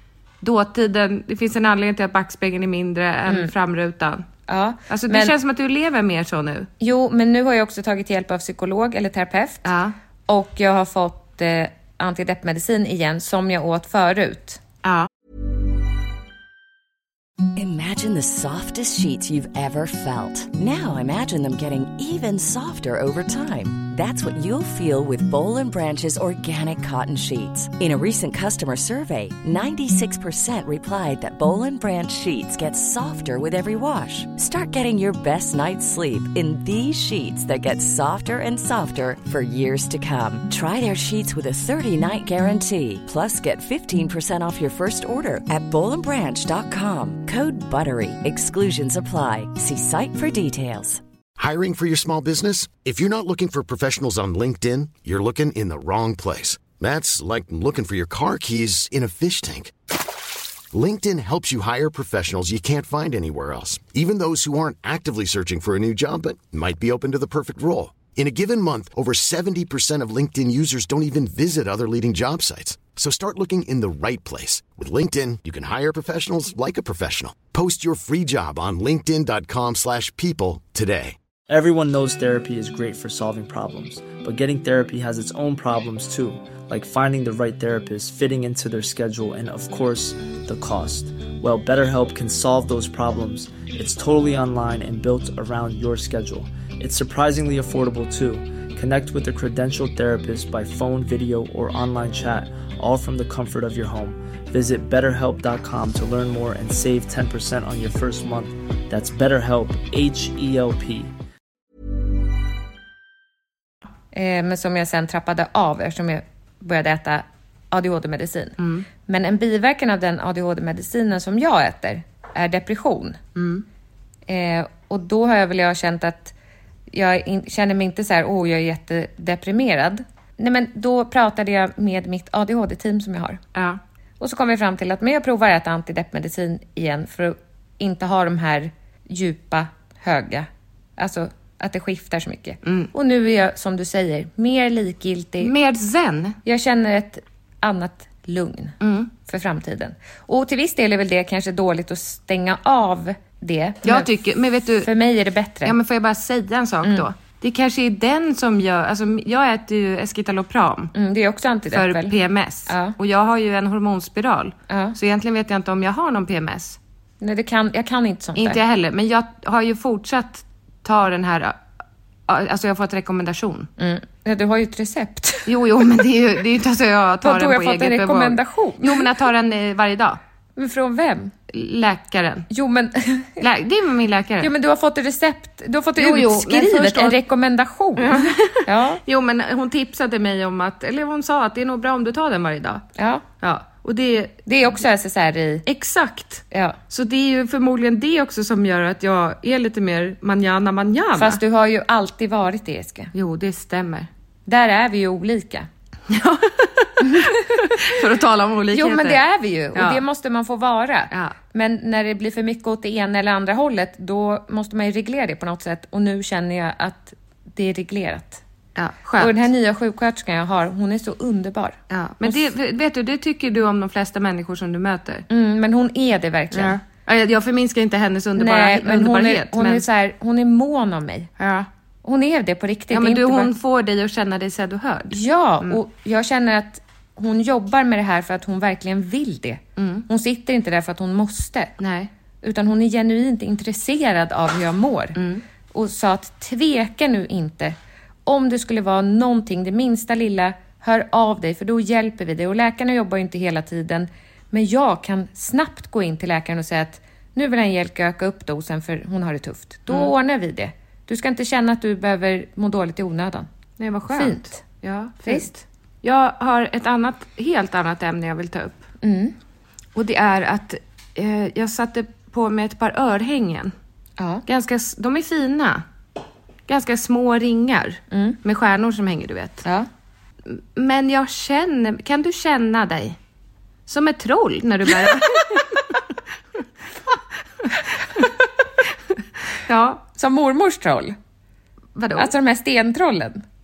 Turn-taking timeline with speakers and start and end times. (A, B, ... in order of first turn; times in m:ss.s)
0:00.4-0:04.3 A
0:03.3-0:03.5 B
0:04.5-0:05.4 B
0:04.9-0:06.7 A
0:06.8-0:09.7 B
0:09.6-0:10.0 A
0:10.3-0:14.6 B
0:17.6-0:51.0 C
0:51.4-0:59.7 D
1:00.7-1:21.2 D
1:21.5-1:51.1 E
1:54.1-2:03.2 B
1:58.6-1:58.9 A
2:03.4-2:03.6 A
2:04.3-2:06.3 B
2:06.9-2:13.4 B
2:14.2-2:25.5 B
2:22.6-2:22.9 A
2:25.4-2:26.4 A
2:26.4-2:34.1 B
2:28.8-2:29.1 A
2:33.8-2:34.9 A
2:34.8-2:35.8 B
2:35.6-2:40.9 A
2:40.9-2:42.2 B
2:41.7-2:46.8 A
2:42.7-2:43.0 B
2:44.7-2:45.0 B
2:47.2-2:48.6 B
2:48.4-2:51.6 A
2:52.3-2:53.7 A
2:53.8-2:55.8 B
2:55.5-3:00.2 A
2:57.2-2:59.1 B
3:00.6-3:01.3 B
3:01.5-3:02.5 A
3:02.5-3:03.5 B
3:03.4-3:04.5 A
3:04.4-3:09.0 B
3:06.0-3:07.2 A
3:08.0-3:12.8 A
3:13.0-3:13.2 B
3:13.4-3:14.4 A
3:14.5-3:15.6 B
3:15.7-3:21.4 A
3:16.5-3:16.8 B
3:21.2-3:23.1 B
3:23.1-3:24.1 A
3:24.5-3:25.7 B
3:26.1-3:29.2 A
3:27.0-3:27.9 B
3:28.7-3:38.4 B
3:29.7-3:30.0 A
3:38.8-3:39.4 A
3:39.2-3:42.4 B
3:41.9-3:45.3 A
3:45.3-3:46.8 B
3:46.5-3:49.8 A
3:48.4-3:51.3 B
3:51.4-3:51.7 A
3:52.0-3:53.5 B
3:52.9-3:55.8 A
3:55.1-4:01.8 B
3:59.8-4:00.0 A
4:01.8-4:02.1 A
4:02.4-4:05.2 B
4:05.2-4:05.4 A
4:05.7-4:23.5 B
4:23.8-4:28.8 A
4:24.1-4:24.6 B
4:29.0-4:29.4 B
4:30.0-4:33.7 A
4:34.2-4:34.4 B
4:34.5-4:35.8 A
4:36.7-4:39.7 A
4:38.1-4:38.4 B
4:40.5-4:43.2 A
4:43.9-4:45.8 A
4:47.7-4:48.3 A
4:49.5-4:50.0 A
4:50.2-4:51.2 B
4:52.0-4:52.3 A
4:52.2-4:53.4 B